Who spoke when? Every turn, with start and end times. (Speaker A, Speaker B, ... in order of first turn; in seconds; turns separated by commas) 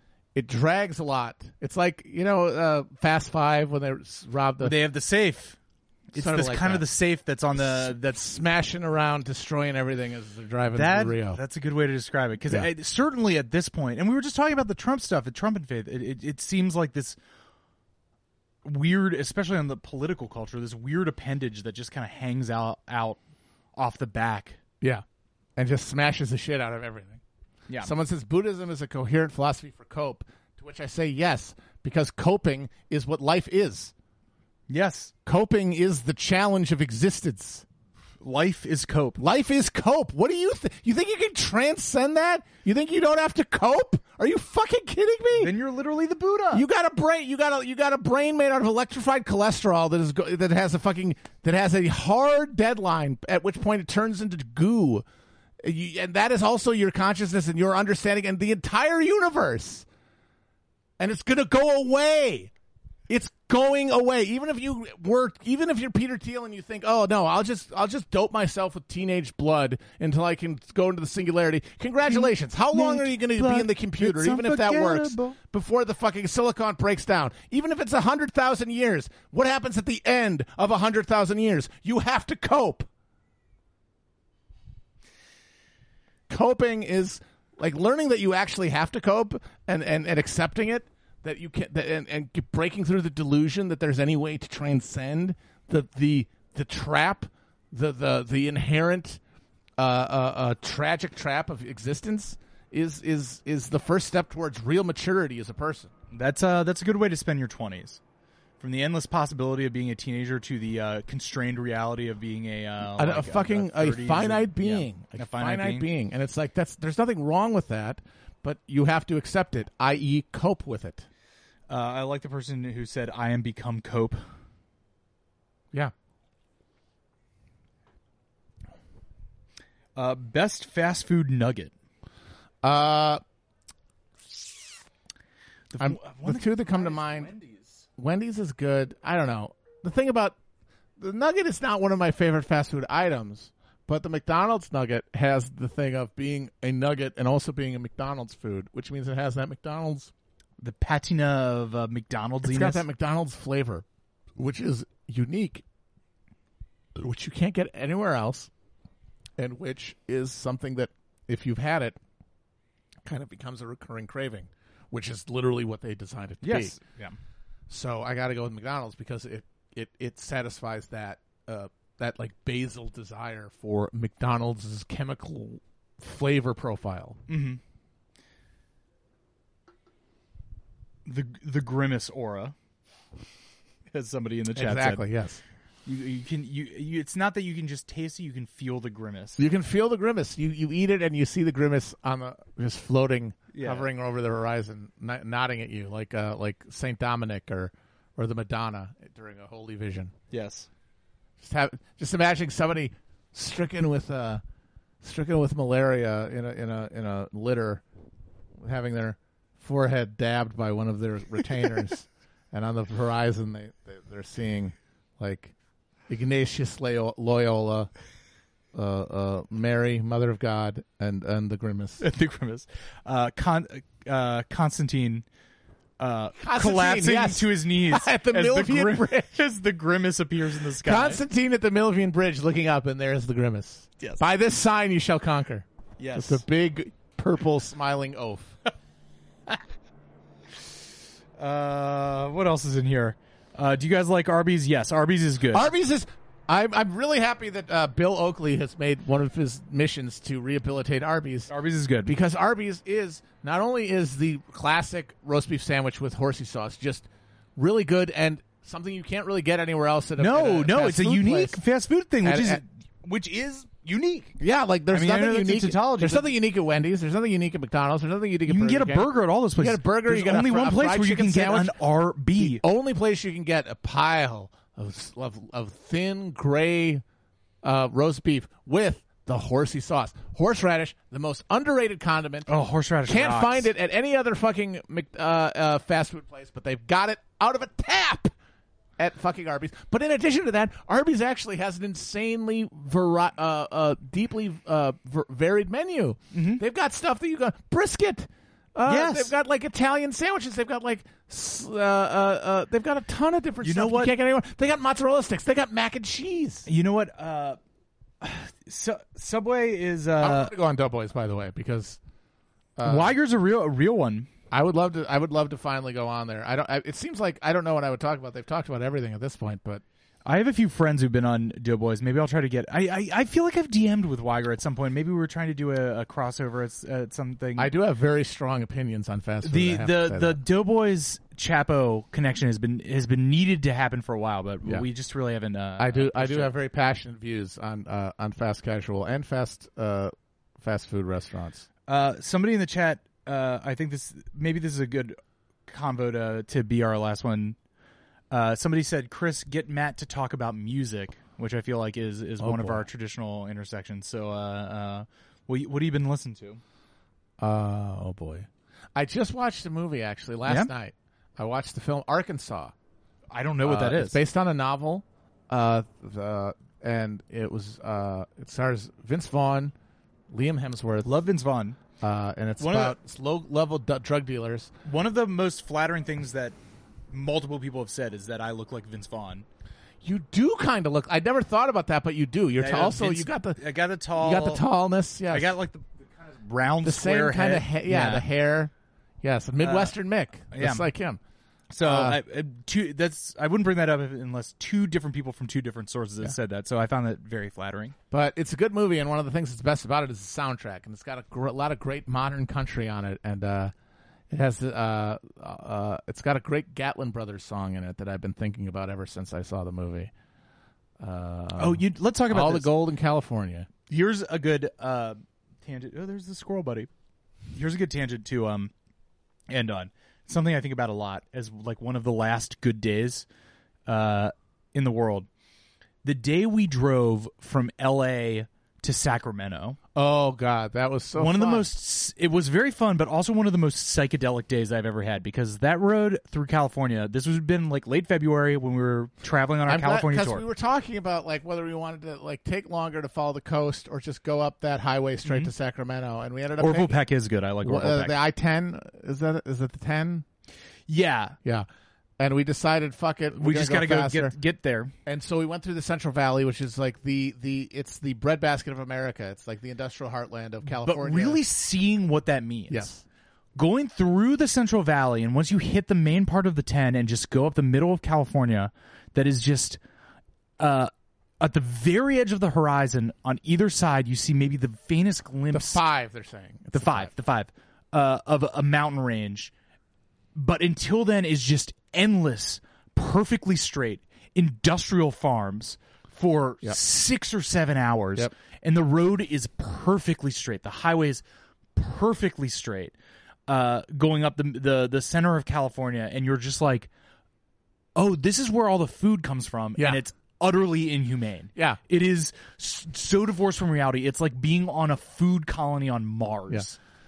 Speaker A: 0.3-4.8, Speaker B: 4.6-5.6, Speaker B: 6.1-8.2, Speaker A: 6.2-6.8, Speaker A: 7.5-11.4, Speaker B: 10.7-17.2, Speaker B: 18.6-23.2, Speaker B: 23.8-24.6, Speaker A: 25.6-27.2, Speaker A: 27.8-33.9, Speaker B: 34.7-35.1, Speaker A: 35.3-37.6, Speaker B: 38.2-39.2, Speaker A: 39.2-45.5, Speaker B: 45.4-46.6, Speaker A: 46.5-55.0, Speaker A: 55.6-59.9, Speaker A: 61.0-62.5, Speaker A: 63.1-82.9, Speaker B: 72.1-75.4, Speaker A: 86.3-99.2, Speaker A: 99.8-105.9, Speaker B: 106.1-108.0, Speaker B: 108.6-115.9, Speaker A: 113.0-121.1, Speaker B: 121.7-124.2, Speaker B: 130.0-131.7, Speaker A: 132.6-133.2, Speaker B: 135.7-137.8, Speaker A: 135.8-137.3, Speaker A: 138.0-140.4, Speaker A: 141.0-150.1, Speaker B: 150.6-152.8, Speaker A: 152.4-153.8, Speaker A: 154.4-155.6, Speaker A: 157.0-158.5, Speaker A: 159.4-162.0, Speaker A: 163.1-166.8, Speaker B: 166.4-167.2, Speaker A: 167.7-177.2, Speaker B: 177.3-177.6, Speaker B: 181.1-182.6, Speaker B: 183.9-185.0, Speaker A: 184.5-185.4, Speaker B: 185.9-189.4, Speaker A: 189.4-200.1, Speaker B: 193.5-193.9, Speaker B: 200.3-200.7, Speaker A: 201.4-204.4, Speaker A: 205.0-207.8, Speaker A: 208.6-215.5, Speaker A: 216.1-217.9, Speaker A: 218.7-222.0, Speaker B: 222.0-225.2, Speaker B: 226.0-231.2, Speaker A: 226.4-229.4, Speaker A: 230.7-238.6, Speaker B: 236.0-236.4, Speaker B: 241.4-245.7, Speaker A: 245.5-251.5, Speaker B: 251.5-252.1, Speaker A: 252.1-261.6, Speaker B: 260.2-264.4, Speaker A: 262.2-262.6, Speaker A: 264.4-269.1, Speaker B: 264.9-266.3, Speaker B: 268.5-272.6, Speaker A: 269.6-271.8, Speaker A: 272.4-277.0, Speaker A: 277.6-282.5, Speaker B: 282.5-283.7, Speaker A: 283.1-288.3, Speaker A: 289.0-306.7, Speaker B: 296.3-296.6, Speaker B: 298.9-299.3, Speaker B: 303.6-304.1, Speaker B: 306.7-307.6, Speaker B: 308.2-310.5, Speaker A: 310.2-312.0, Speaker A: 312.8-313.1, Speaker B: 312.9-314.3, Speaker A: 314.5-319.8, Speaker B: 320.2-327.7, Speaker A: 327.6-330.4, Speaker B: 329.4-336.5, Speaker A: 335.8-341.7, Speaker B: 341.9-347.6, Speaker B: 348.3-356.6, Speaker A: 352.4-352.9, Speaker A: 357.4-362.7, Speaker B: 360.5-360.7, Speaker B: 363.3-364.2, Speaker A: 363.6-369.7, Speaker A: 370.3-371.1, Speaker B: 371.1-371.8, Speaker A: 372.0-374.7, Speaker B: 372.6-373.0, Speaker B: 374.9-376.6, Speaker B: 377.1-379.4, Speaker A: 380.0-383.6, Speaker B: 382.6-384.6, Speaker A: 384.1-385.6, Speaker B: 385.3-388.3, Speaker A: 386.8-391.2, Speaker B: 389.6-389.9, Speaker B: 390.5-390.9, Speaker B: 391.7-398.0, Speaker A: 391.8-392.2, Speaker A: 398.1-403.7, Speaker A: 404.3-410.1, Speaker A: 411.0-413.7, Speaker B: 411.6-412.7, Speaker B: 413.9-416.9, Speaker B: 417.5-418.7, Speaker B: 419.5-423.3, Speaker B: 423.9-425.3, Speaker B: 426.0-429.8, Speaker A: 429.9-431.7, Speaker B: 431.2-440.4, Speaker A: 439.7-447.0, Speaker B: 445.2-445.5, Speaker B: 446.6-448.1, Speaker A: 447.6-450.2, Speaker B: 450.9-451.4, Speaker A: 452.2-454.3, Speaker B: 453.4-454.9, Speaker A: 455.1-461.4, Speaker B: 460.6-462.9, Speaker A: 462.7-463.0, Speaker B: 463.6-469.8, Speaker B: 470.6-475.8, Speaker A: 475.5-477.1, Speaker B: 476.7-479.5, Speaker B: 480.4-491.2, Speaker B: 491.8-492.9, Speaker B: 493.5-496.9, Speaker B: 498.0-506.8